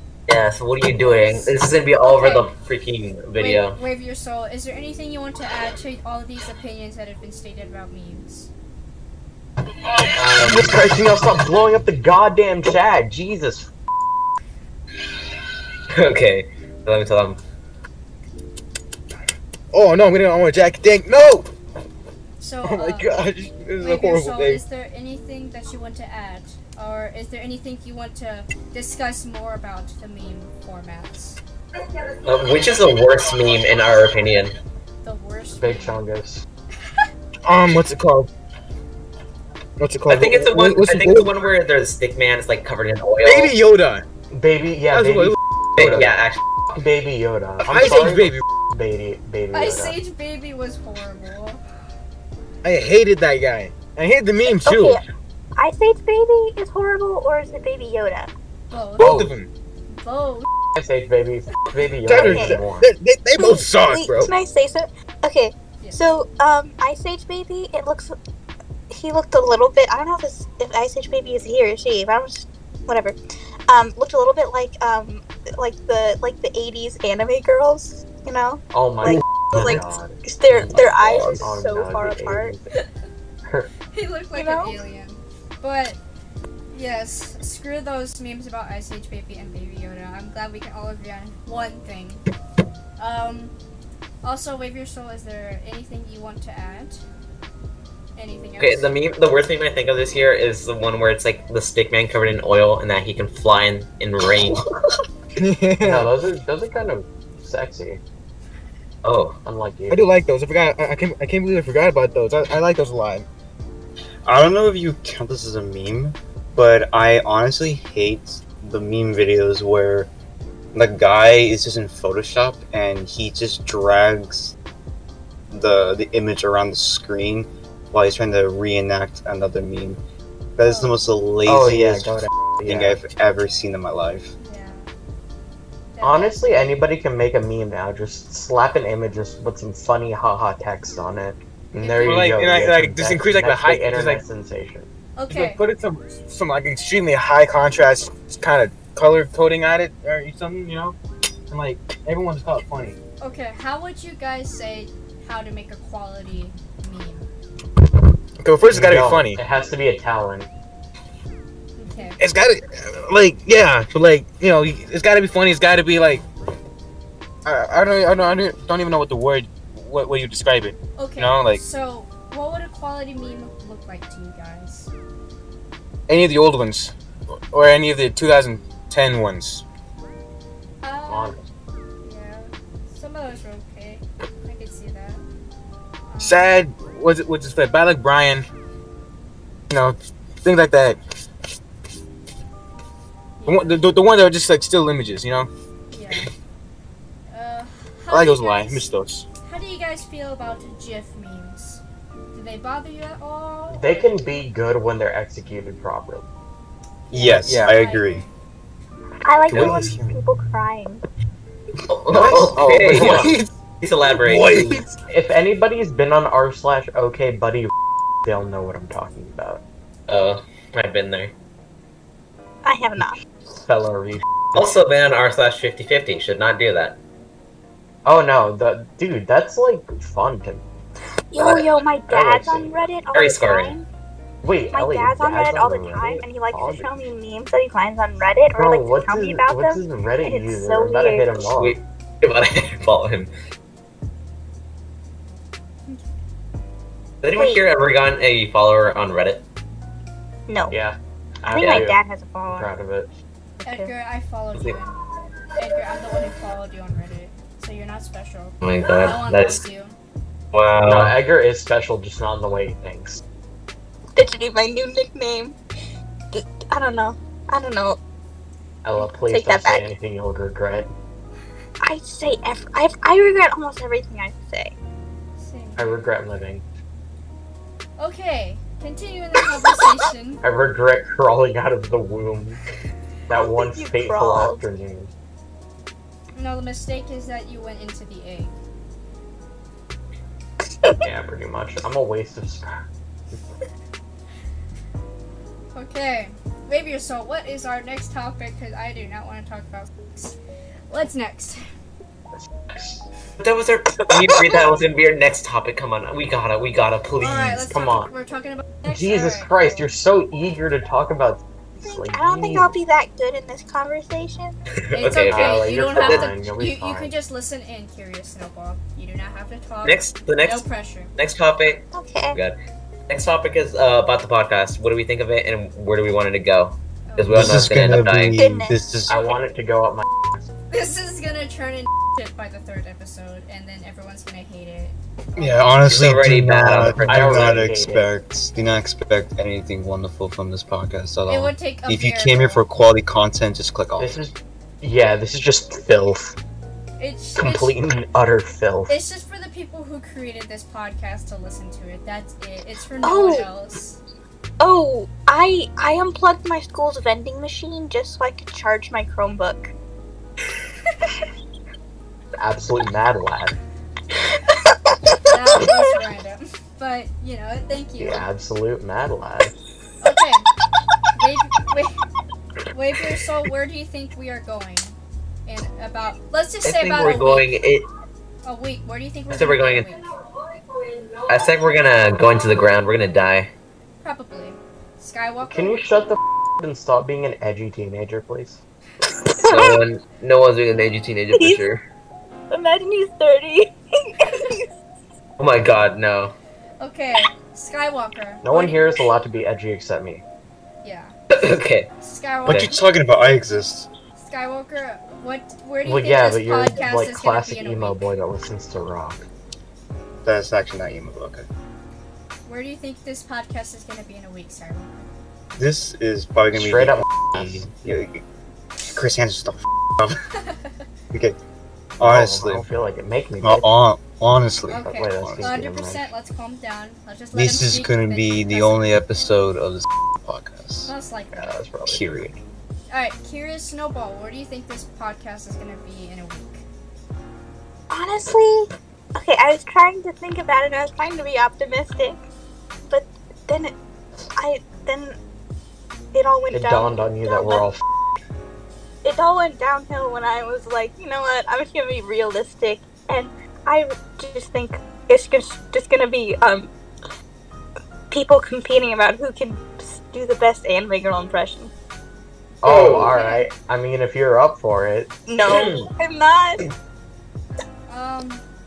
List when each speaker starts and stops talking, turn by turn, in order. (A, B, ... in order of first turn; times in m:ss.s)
0:00.3-0:03.8 A
0:02.0-0:02.5 B
0:03.4-0:08.5 B
0:10.1-0:13.7 C
0:10.4-0:10.8 D
0:15.9-0:17.4 A
0:19.7-0:21.5 D
0:22.4-0:23.2 B
0:22.6-0:24.6 D
0:23.8-0:31.4 B
0:32.2-0:34.6 A
0:35.0-0:36.0 B
0:35.6-0:36.4 C
0:37.4-0:38.3 D
0:39.8-0:41.4 D
0:40.1-0:43.5 A
0:43.2-0:44.0 D
0:44.3-0:50.0 C
0:44.9-0:45.4 D
0:45.8-0:46.4 A
0:47.6-0:48.4 D
0:49.5-0:51.6 B
0:52.6-0:55.0 D
0:54.4-0:55.0 E
0:55.6-0:58.3 E
0:58.7-0:59.2 B
0:59.0-0:59.5 D
0:59.0-0:59.3 C
0:59.9-1:00.5 B
1:00.7-1:02.9 C
1:02.0-1:04.3 D
1:02.2-1:02.6 E
1:03.3-1:08.2 E
1:08.9-1:13.2 E
1:13.7-1:22.6 E
1:18.7-1:22.6 C
1:23.9-1:26.0 B
1:24.3-1:24.8 E
1:26.7-1:32.2 B
1:33.0-1:33.5 B
1:34.2-1:37.0 B
1:38.2-1:38.9 B
1:38.6-1:44.6 A
1:45.4-1:46.1 D
1:45.8-1:48.0 C
1:49.0-1:49.4 A
1:49.4-1:50.1 C
1:49.9-1:53.2 D
1:54.2-2:00.1 F
2:00.7-2:04.5 F
2:05.5-2:10.0 F
2:10.6-2:14.3 F
2:10.6-2:11.0 B
2:11.4-2:13.0 C
2:14.4-2:14.9 B
2:15.9-2:16.4 B
2:16.0-2:24.9 C
2:21.8-2:22.4 B
2:22.0-2:24.2 D
2:25.2-2:25.6 B
2:25.3-2:31.0 D
2:31.5-2:33.0 D
2:33.2-2:37.3 B
2:38.4-2:39.4 D
2:38.6-2:40.5 C
2:41.8-2:42.2 B
2:42.2-2:46.2 D
2:47.4-2:51.6 D
2:51.0-2:54.9 B
2:56.1-2:56.9 D
2:57.5-2:59.6 D
3:00.8-3:01.4 B
3:01.1-3:01.4 C
3:02.0-3:05.2 B
3:06.1-3:06.6 B
3:06.2-3:08.4 D
3:09.7-3:11.0 D
3:13.4-3:13.9 B
3:13.4-3:15.5 D
3:15.9-3:16.3 B
3:17.3-3:18.9 B
3:18.1-3:19.2 D
3:19.4-3:21.8 B
3:22.3-3:24.2 B
3:23.7-3:26.2 C
3:27.1-3:28.3 B
3:27.1-3:28.2 F
3:27.4-3:27.7 D
3:29.2-3:31.0 E
3:29.5-3:30.2 D
3:31.9-3:34.7 A
3:32.1-3:33.5 D
3:32.1-3:33.4 C
3:34.1-3:35.0 D
3:35.0-3:37.7 C
3:38.2-3:39.6 C
3:40.1-3:41.3 A
3:42.6-3:43.2 E
3:43.5-3:44.2 C
3:44.5-3:47.0 A
3:48.0-3:50.6 C
3:51.3-3:53.9 E
3:51.4-3:51.6 A
3:52.1-3:52.7 C
3:53.1-3:53.8 A
3:54.4-3:56.9 C
3:54.7-4:01.4 E
3:58.5-4:01.8 C
4:01.5-4:03.3 A
4:07.2-4:09.4 A
4:07.3-4:07.6 E
4:10.5-4:10.8 E
4:10.7-4:13.1 C
4:11.5-4:12.7 E
4:11.5-4:11.9 A
4:13.6-4:13.9 E
4:13.6-4:15.0 B
4:15.6-4:20.0 B
4:18.6-4:19.6 A
4:20.5-4:21.2 A
4:20.8-4:23.2 C
4:24.2-4:25.6 E
4:26.3-4:28.0 E
4:28.8-4:30.9 C
4:29.2-4:29.8 E
4:31.8-4:34.8 E
4:35.4-4:36.1 B
4:35.8-4:36.6 C
4:38.0-4:40.4 B
4:40.4-4:42.6 C
4:43.3-4:45.1 C
4:43.4-4:44.6 E
4:46.4-4:48.5 B
4:51.0-4:52.8 C
4:55.7-5:00.4 B
5:00.9-5:01.6 B
5:02.7-5:03.0 C
5:03.4-5:07.7 A
5:07.2-5:09.8 B
5:07.7-5:08.1 C
5:08.8-5:12.7 C
5:11.8-5:14.6 E
5:14.8-5:16.3 A
5:14.9-5:21.1 B
5:15.3-5:17.1 C
5:19.8-5:22.6 A
5:21.9-5:22.4 E
5:23.1-5:28.4 A
5:27.1-5:27.7 B
5:27.3-5:29.2 F
5:28.3-5:28.8 E
5:29.1-5:30.4 C
5:30.7-5:35.8 B
5:35.4-5:44.2 F
5:35.8-5:37.6 A
5:37.0-5:38.1 C
5:41.3-5:42.6 B
5:44.0-5:46.3 C
5:47.0-5:47.7 B
5:47.4-5:49.0 C
5:48.9-5:54.0 B
5:53.0-5:53.5 E
5:54.6-5:59.7 E
6:02.4-6:03.5 C
6:05.2-6:08.2 B
6:08.0-6:09.5 C
6:10.0-6:10.5 B
6:11.1-6:12.0 B
6:12.7-6:17.5 B
6:16.6-6:17.8 A
6:18.4-6:20.0 B
6:19.3-6:19.9 A
6:21.3-6:23.5 A
6:24.0-6:26.1 B
6:25.5-6:28.6 C
6:29.3-6:29.8 E
6:29.4-6:31.8 A
6:31.3-6:31.6 E
6:32.5-6:34.7 E
6:35.4-6:36.3 A
6:36.8-6:39.0 B
6:38.4-6:40.2 C
6:40.8-6:41.2 B
6:41.3-6:41.9 A
6:42.0-6:42.8 B
6:42.4-6:43.9 F
6:44.2-6:48.1 B
6:45.8-6:49.2 C
6:50.2-6:51.5 F
6:52.4-6:55.2 B
6:55.6-6:58.2 F
6:56.5-6:57.8 C
6:58.8-7:00.2 F
7:00.4-7:00.7 B
7:01.1-7:01.4 F
7:02.0-7:03.7 C
7:02.0-7:02.7 F
7:03.4-7:05.6 F
7:04.7-7:08.9 B
7:04.7-7:06.0 C
7:07.3-7:10.9 F
7:10.8-7:11.5 B
7:11.3-7:12.0 C
7:11.9-7:12.4 F
7:12.9-7:16.6 B
7:17.9-7:22.2 E
7:22.9-7:23.8 E
7:24.4-7:25.2 E
7:26.1-7:27.6 E
7:26.5-7:27.8 C
7:29.0-7:36.7 E
7:38.1-7:41.7 E
7:42.6-7:45.1 C
7:42.6-7:43.1 A
7:42.9-7:43.5 B
7:45.3-7:46.6 E
7:45.4-7:45.9 A
7:47.9-7:48.4 B